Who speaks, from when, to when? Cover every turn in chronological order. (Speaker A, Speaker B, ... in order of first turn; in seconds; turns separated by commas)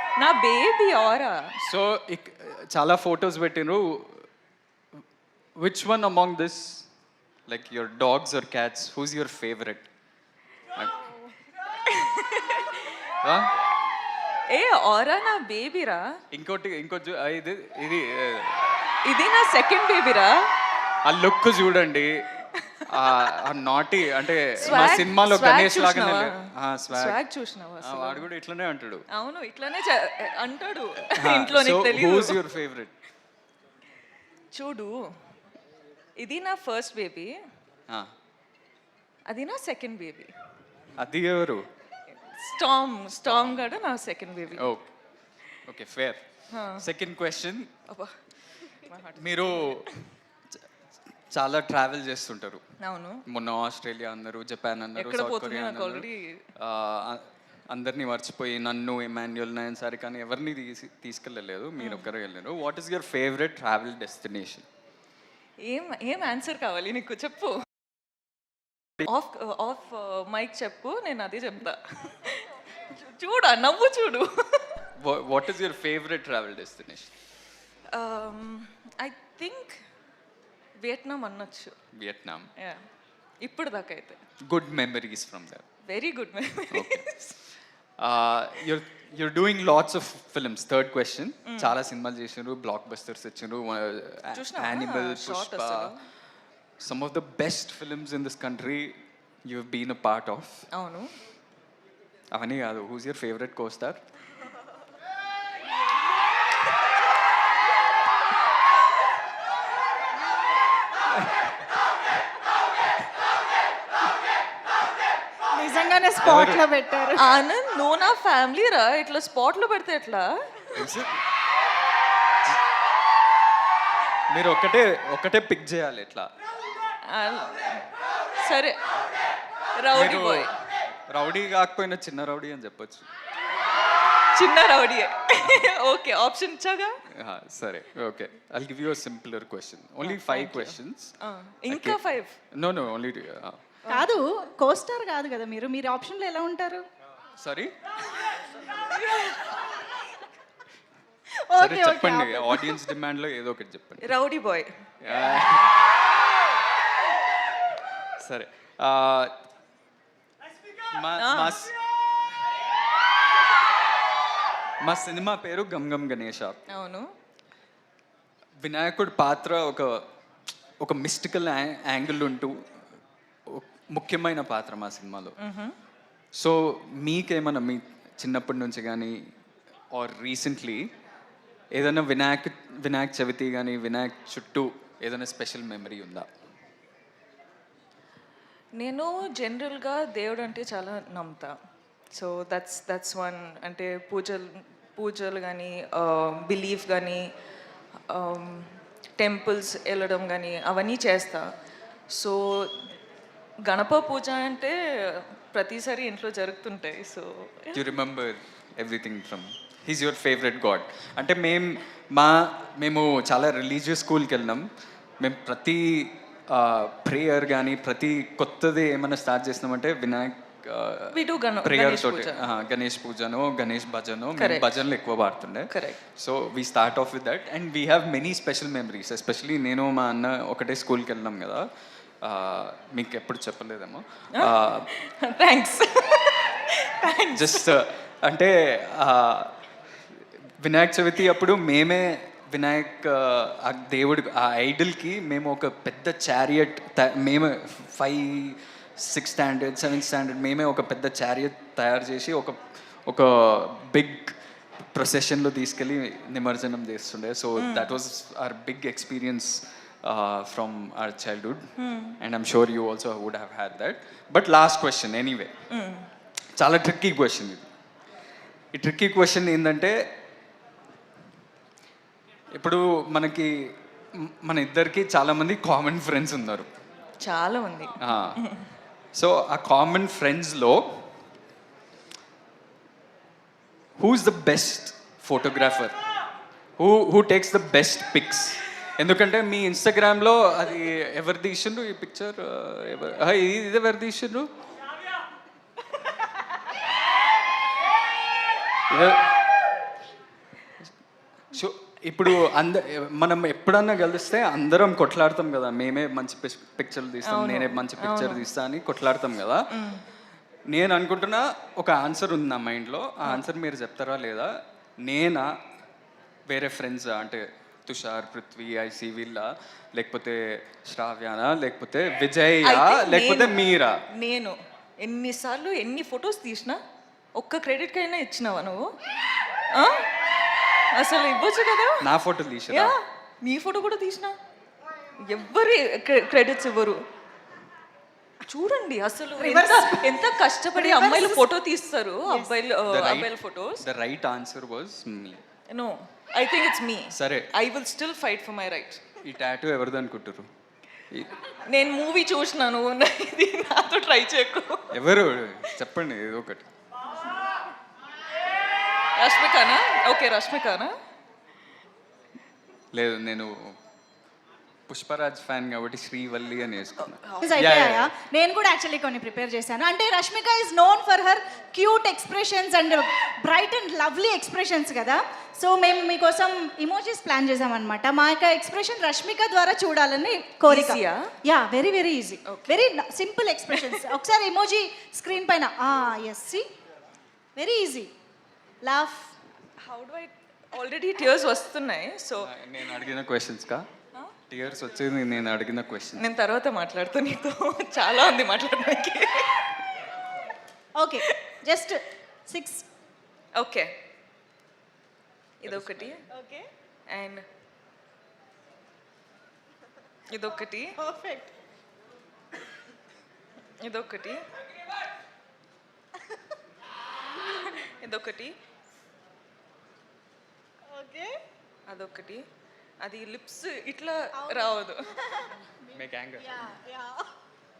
Speaker A: 0.2-1.6, Speaker B: 1.6-4.3, Speaker B: 5.6-6.9, Speaker B: 7.5-9.9, Speaker A: 11.8-13.0, Speaker B: 13.2-13.5, Speaker A: 14.5-16.1, Speaker B: 16.3-18.9, Speaker A: 19.1-20.5, Speaker B: 21.1-22.3, Speaker A: 22.6-23.5, Speaker B: 22.9-27.2, Speaker A: 24.6-28.3, Speaker B: 27.8-29.1, Speaker A: 29.1-32.4, Speaker B: 31.1-32.9, Speaker A: 34.5-35.1, Speaker A: 36.2-37.4, Speaker A: 39.3-40.3, Speaker B: 41.0-41.7, Speaker A: 42.2-44.7, Speaker B: 43.2-43.7, Speaker B: 44.5-44.9, Speaker B: 45.7-46.2, Speaker A: 46.5-46.9, Speaker B: 46.8-47.7, Speaker A: 47.9-50.1, Speaker B: 49.2-49.9, Speaker B: 51.3-52.6, Speaker A: 52.8-53.2, Speaker B: 53.3-64.7, Speaker A: 55.0-56.4, Speaker A: 61.8-62.1, Speaker A: 65.6-67.6, Speaker A: 69.0-74.8, Speaker B: 75.0-77.1, Speaker A: 77.9-79.8, Speaker A: 80.8-81.8, Speaker B: 81.9-82.5, Speaker A: 82.6-82.8, Speaker A: 83.4-84.2, Speaker B: 84.4-85.7, Speaker A: 85.9-87.3, Speaker B: 86.7-87.1, Speaker B: 88.0-95.9, Speaker A: 91.5-91.8, Speaker A: 94.3-96.0, Speaker B: 96.8-100.7, Speaker A: 100.7-101.1, Speaker B: 102.3-104.0, Speaker C: 115.5-117.3, Speaker B: 116.2-116.6, Speaker A: 117.2-120.8, Speaker B: 120.8-121.2, Speaker B: 124.3-126.3, Speaker A: 127.1-127.9, Speaker A: 128.4-128.8, Speaker A: 129.8-130.6, Speaker B: 129.9-130.5, Speaker B: 131.1-133.1, Speaker A: 134.3-137.0, Speaker B: 137.1-141.1, Speaker A: 140.0-142.3, Speaker B: 141.7-142.0, Speaker B: 142.5-143.7, Speaker C: 143.9-146.8, Speaker B: 147.4-147.7, Speaker A: 148.7-149.6, Speaker C: 151.5-152.9, Speaker B: 151.6-154.1, Speaker A: 154.0-154.7, Speaker B: 155.0-155.8, Speaker B: 158.2-159.3, Speaker B: 160.9-162.1, Speaker A: 161.2-161.6, Speaker B: 164.8-166.6, Speaker A: 166.7-167.1, Speaker B: 168.6-170.0, Speaker B: 170.8-172.6, Speaker B: 173.5-175.4, Speaker A: 175.4-175.8, Speaker B: 176.4-179.2, Speaker B: 179.9-180.9, Speaker B: 181.7-186.3, Speaker A: 188.8-191.6, Speaker A: 192.1-197.2, Speaker A: 198.1-201.5, Speaker A: 202.1-202.8, Speaker A: 203.7-207.9, Speaker B: 207.7-214.7, Speaker B: 215.2-231.7, Speaker A: 221.1-222.5, Speaker A: 224.4-224.7, Speaker A: 225.7-226.0, Speaker B: 232.2-234.9, Speaker A: 234.4-237.8, Speaker B: 237.3-239.6, Speaker B: 240.2-254.4, Speaker B: 254.9-265.6, Speaker A: 257.6-257.9, Speaker A: 261.8-262.2, Speaker A: 265.7-266.1, Speaker B: 266.6-267.7, Speaker B: 268.7-270.0, Speaker B: 272.5-276.7, Speaker A: 277.2-278.6, Speaker B: 278.0-278.4, Speaker B: 279.2-281.0, Speaker B: 284.0-285.9, Speaker B: 286.8-294.5, Speaker B: 298.9-299.4, Speaker B: 301.5-309.7, Speaker A: 307.2-308.5, Speaker A: 309.7-310.0, Speaker B: 310.7-314.5, Speaker B: 315.0-315.5, Speaker B: 316.5-324.0, Speaker A: 322.6-323.6, Speaker A: 324.2-326.8, Speaker A: 327.4-328.9, Speaker A: 329.7-330.1, Speaker A: 330.9-332.1, Speaker B: 332.0-332.9, Speaker A: 332.7-334.4, Speaker A: 335.3-337.0, Speaker A: 338.5-343.9, Speaker C: 339.4-340.2, Speaker C: 340.8-341.4, Speaker B: 342.9-345.4, Speaker A: 345.7-349.0, Speaker B: 347.1-347.5, Speaker B: 349.2-350.5, Speaker A: 351.7-355.0, Speaker B: 354.9-356.7, Speaker A: 359.2-360.9, Speaker B: 362.9-363.7, Speaker B: 364.9-368.1, Speaker A: 367.1-367.5, Speaker C: 367.4-386.6, Speaker A: 380.7-381.3, Speaker A: 382.5-382.8, Speaker A: 383.7-384.1, Speaker C: 387.6-388.1, Speaker C: 388.8-389.3, Speaker A: 389.8-392.5, Speaker B: 392.4-393.9, Speaker B: 394.5-396.2, Speaker A: 396.2-399.7, Speaker C: 401.0-402.9, Speaker A: 403.6-403.9, Speaker A: 405.6-406.2, Speaker B: 405.6-406.2, Speaker C: 406.3-406.7, Speaker A: 407.1-407.4, Speaker A: 410.3-411.0, Speaker C: 411.0-411.5, Speaker A: 413.8-414.4, Speaker A: 417.6-418.6, Speaker C: 420.9-421.3, Speaker A: 421.9-422.4, Speaker A: 423.0-425.1, Speaker C: 424.4-425.6, Speaker B: 425.9-426.6, Speaker C: 426.5-427.2